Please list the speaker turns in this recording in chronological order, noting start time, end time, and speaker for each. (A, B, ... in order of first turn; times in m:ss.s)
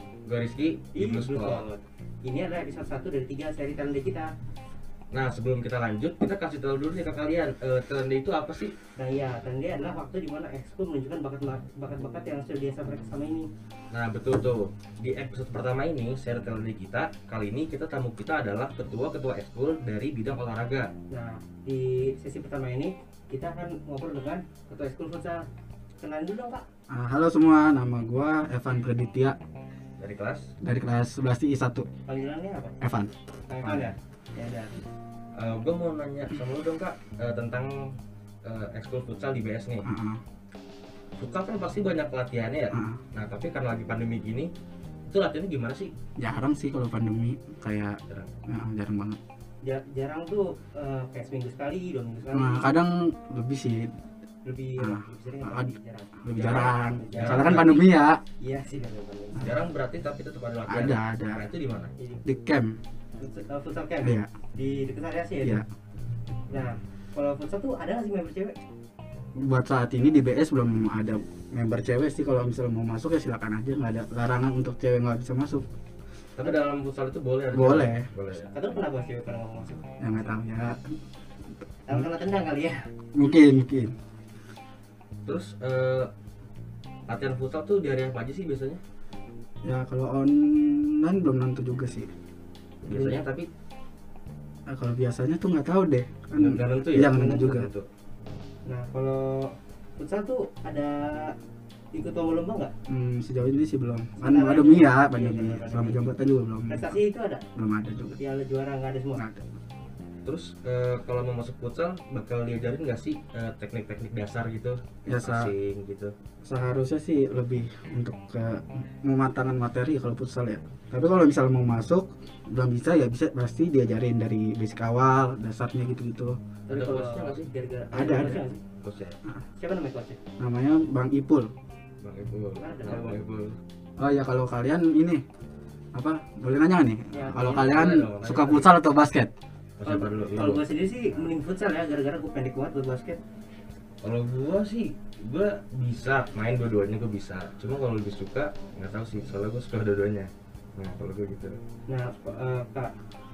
0:00.2-0:01.7 A
0:00.9-0:04.3 B
0:05.1-0:08.8 A
0:09.0-0:13.5 B
0:13.9-0:20.9 A
0:21.1-0:25.5 B
0:26.0-0:26.6 B
0:26.9-0:29.4 C
0:30.0-0:30.5 A
0:30.6-0:31.9 C
0:32.1-0:32.7 B
0:32.8-0:33.1 C
0:33.5-0:34.7 B
0:33.6-0:33.9 A
0:35.3-0:39.8 A
0:39.8-0:40.2 C
0:41.2-0:44.5 A
0:42.7-0:43.0 C
0:45.1-0:45.9 A
0:46.2-0:49.2 C
0:48.1-0:48.3 A
0:49.6-0:52.8 B
0:52.3-0:53.9 C
0:54.4-0:57.9 B
0:54.8-0:58.2 C
0:56.3-0:57.8 A
0:58.4-0:59.5 B
0:59.4-1:01.9 A
1:00.6-1:01.5 C
1:02.0-1:02.2 B
1:02.2-1:02.8 C
1:03.2-1:05.6 B
1:04.0-1:04.3 C
1:06.5-1:08.6 B
1:09.4-1:15.6 C
1:16.4-1:18.5 A
1:17.5-1:18.1 C
1:18.5-1:19.8 B
1:20.0-1:21.0 C
1:21.9-1:22.9 B
1:23.1-1:24.0 C
1:25.2-1:26.1 A
1:27.1-1:28.8 A
1:29.6-1:32.1 C
1:32.8-1:33.5 A
1:32.8-1:33.2 B
1:34.7-1:37.7 C
1:36.3-1:37.9 A
1:37.1-1:37.7 B
1:38.6-1:41.4 B
1:41.9-1:42.7 B
1:42.9-1:47.0 C
1:44.2-1:46.1 B
1:46.7-1:47.4 B
1:47.5-1:48.2 C
1:48.2-1:49.2 B
1:49.1-1:49.5 C
1:50.2-1:56.1 A
1:55.0-1:55.5 C
1:56.4-2:06.4 C
2:06.7-2:08.6 B
2:06.7-2:07.5 A
2:07.9-2:08.4 C
2:08.8-2:09.2 A
2:09.6-2:10.2 B
2:10.4-2:11.5 C
2:12.0-2:13.6 A
2:12.6-2:13.2 B
2:14.0-2:15.2 C
2:15.9-2:19.3 C
2:17.1-2:18.0 B
2:17.4-2:18.7 A
2:19.8-2:20.7 A
2:19.8-2:23.2 B
2:24.0-2:31.6 A
2:31.9-2:32.9 B